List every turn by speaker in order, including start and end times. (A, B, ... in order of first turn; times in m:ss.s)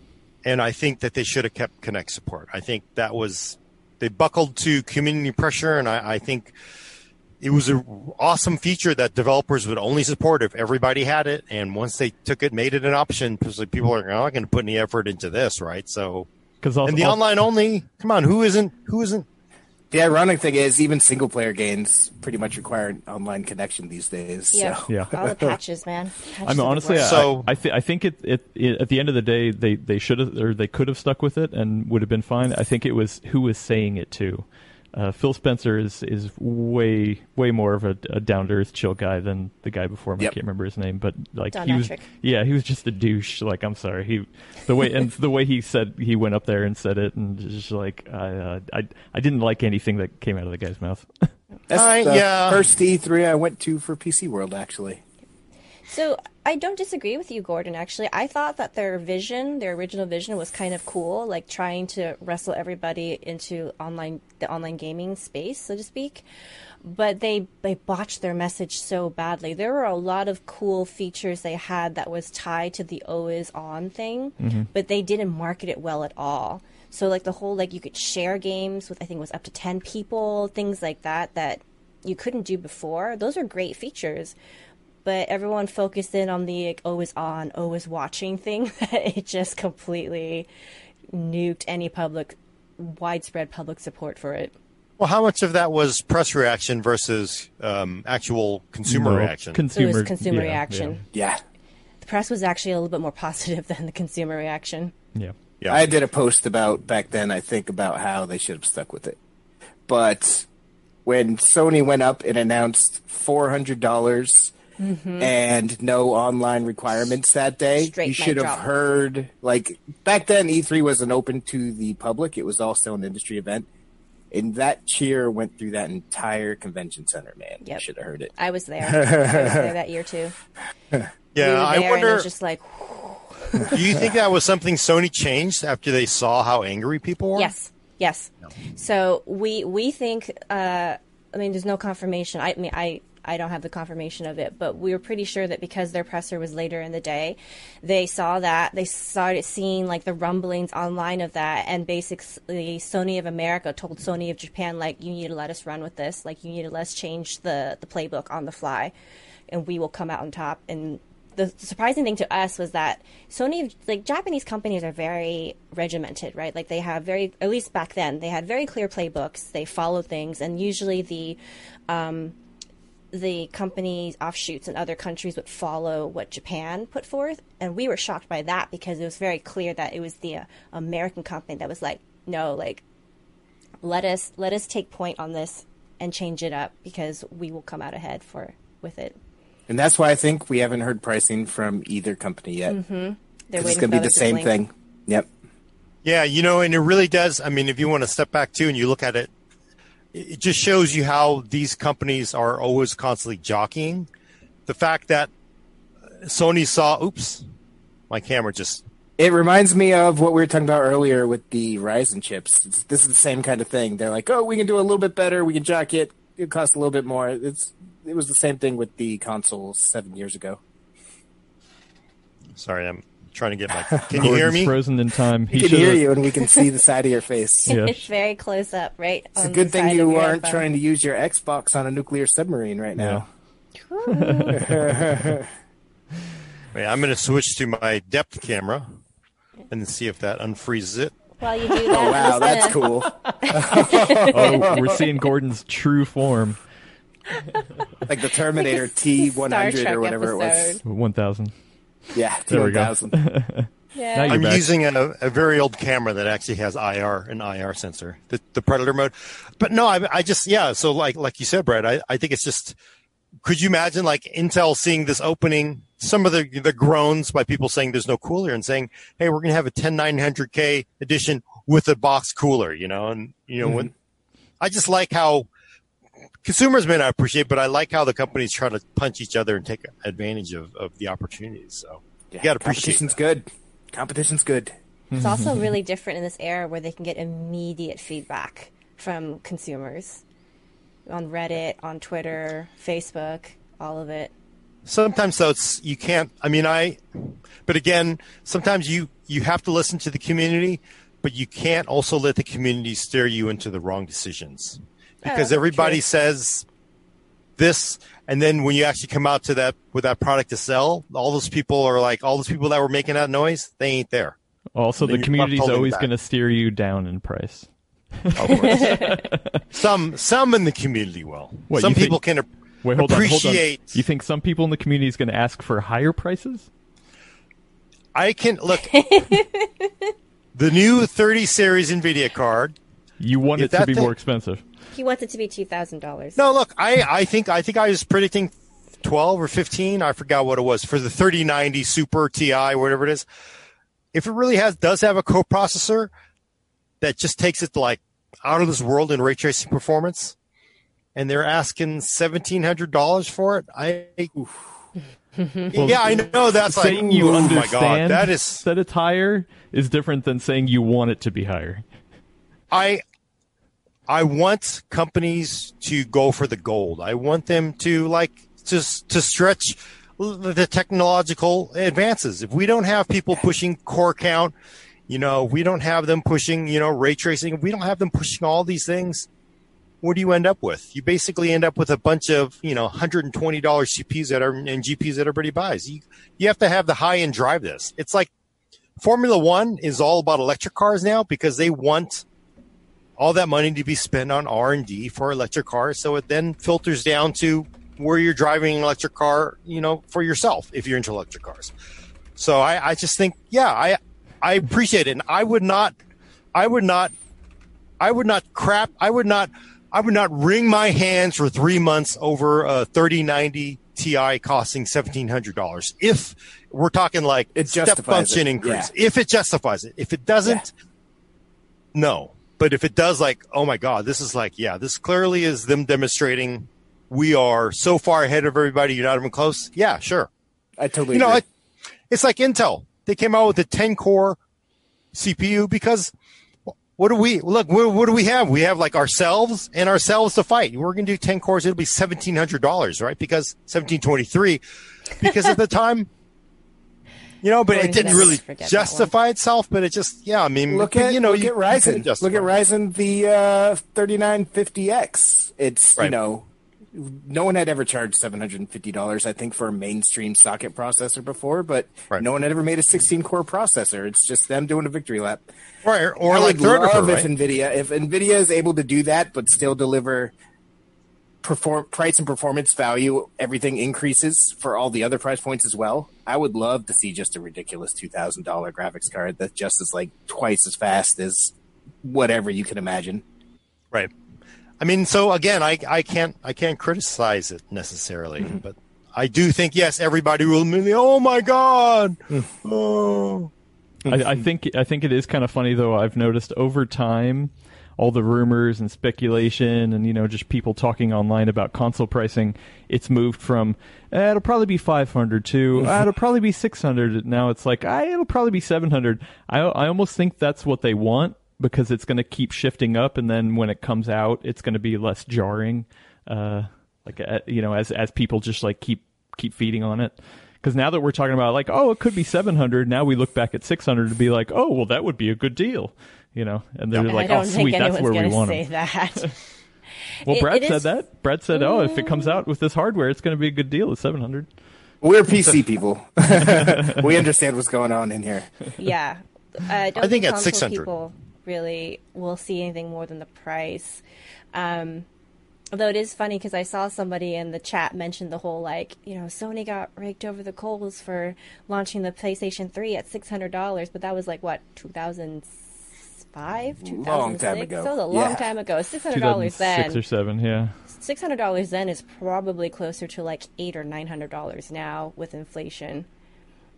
0:00.4-0:06.5 A
0:07.4-0:16.3 A
0:16.6-0:17.3 B
0:16.8-0:19.3 A
0:19.9-0:25.6 C
0:24.5-0:27.2 D
0:26.4-0:51.3 B
0:27.0-0:27.5 A
0:41.5-0:42.0 D
0:51.7-0:55.0 C
0:51.7-0:52.6 A
0:55.9-1:06.2 D
1:06.8-1:24.4 D
1:14.4-1:14.7 B
1:25.0-1:30.5 D
1:31.1-1:34.5 D
1:35.0-1:39.6 A
1:38.9-1:41.0 B
1:39.7-1:41.0 D
1:41.1-1:41.4 C
1:42.0-1:44.9 D
1:45.7-1:49.2 C
1:49.9-1:50.5 C
1:51.0-1:54.5 C
1:54.8-1:55.3 D
1:55.2-2:03.7 C
1:57.8-1:58.6 D
2:04.3-2:08.3 C
2:07.6-2:10.4 D
2:08.8-2:09.7 C
2:11.3-2:12.3 A
2:11.4-2:14.0 D
2:13.7-2:17.5 A
2:17.4-2:38.9 D
2:39.5-2:52.4 D
2:53.1-3:02.8 D
3:03.8-3:09.2 D
3:09.7-3:12.8 C
3:12.7-3:14.5 D
3:13.6-3:15.3 C
3:16.0-3:19.3 A
3:20.1-3:24.1 A
3:24.7-3:25.3 A
3:26.2-3:27.4 A
3:28.1-3:28.8 A
3:29.2-3:40.6 C
3:42.6-3:44.7 A
3:44.1-3:46.1 B
3:45.5-3:47.8 C
3:47.7-3:50.6 D
3:47.7-3:48.0 B
3:49.4-3:53.3 C
3:53.0-3:53.3 B
3:53.8-3:54.8 D
3:54.1-3:55.4 B
3:54.6-3:55.5 C
3:56.7-3:59.0 A
3:59.7-4:01.2 A
4:01.4-4:05.0 D
4:01.9-4:05.0 C
4:04.3-4:06.6 B
4:08.1-4:10.8 C
4:08.6-4:10.8 D
4:10.8-4:11.5 B
4:12.1-4:13.2 C
4:12.5-4:14.6 B
4:13.9-4:14.4 D
4:14.3-4:22.8 A
4:23.4-4:33.9 A
4:33.6-4:33.9 C
4:34.6-4:35.5 A
4:36.4-4:43.2 A
4:42.3-4:44.8 C
4:45.1-4:45.6 B
4:45.2-4:50.2 D
4:51.1-4:54.3 D
4:54.9-5:06.7 A
5:05.2-5:06.0 D
5:07.6-5:14.4 A
5:14.8-5:19.6 B
5:15.0-5:16.1 A
5:18.3-5:19.1 A
5:18.8-5:19.1 D
5:19.7-5:24.0 A
5:21.7-5:22.2 B
5:22.8-5:26.7 B
5:28.2-5:28.9 A
5:28.8-5:30.1 D
5:30.6-5:32.8 A
5:33.2-5:34.6 B
5:33.6-5:34.1 A
5:34.9-5:36.4 D
5:36.4-5:43.2 A
5:44.1-5:46.1 A
5:47.0-5:50.4 A
5:51.2-5:54.3 A
5:55.4-5:55.7 D
5:55.7-6:01.9 B
5:55.7-5:58.6 A
6:02.7-6:03.0 A
6:04.1-6:14.5 A
6:15.1-6:19.3 A
6:20.0-6:28.3 A
6:29.0-6:32.2 A
6:33.2-6:41.7 A
6:42.4-6:46.0 A
6:46.6-6:47.1 A
6:48.0-7:00.7 A
6:57.6-6:58.9 C
7:01.9-7:10.3 A
7:10.8-7:11.4 C
7:11.1-7:11.4 A
7:12.1-7:14.4 A
7:15.1-7:16.1 A
7:16.7-7:24.6 A
7:25.2-7:26.1 A
7:27.4-7:32.5 A
7:27.7-7:29.1 D
7:30.7-7:45.4 C
7:45.8-7:47.3 A
7:46.2-7:50.3 C
7:51.4-8:03.2 C
8:04.8-8:13.5 A
8:14.1-8:49.3 B
8:47.0-8:49.4 D
8:50.3-8:50.9 D
8:50.3-8:54.5 B
8:51.5-8:52.4 D
8:55.0-8:58.6 C
8:56.6-8:57.0 B
8:58.8-9:04.0 D
9:00.0-9:00.9 A
9:04.5-9:05.1 D
9:05.7-9:20.0 D
9:16.8-9:18.5 C
9:19.1-9:20.8 B
9:20.9-9:26.1 D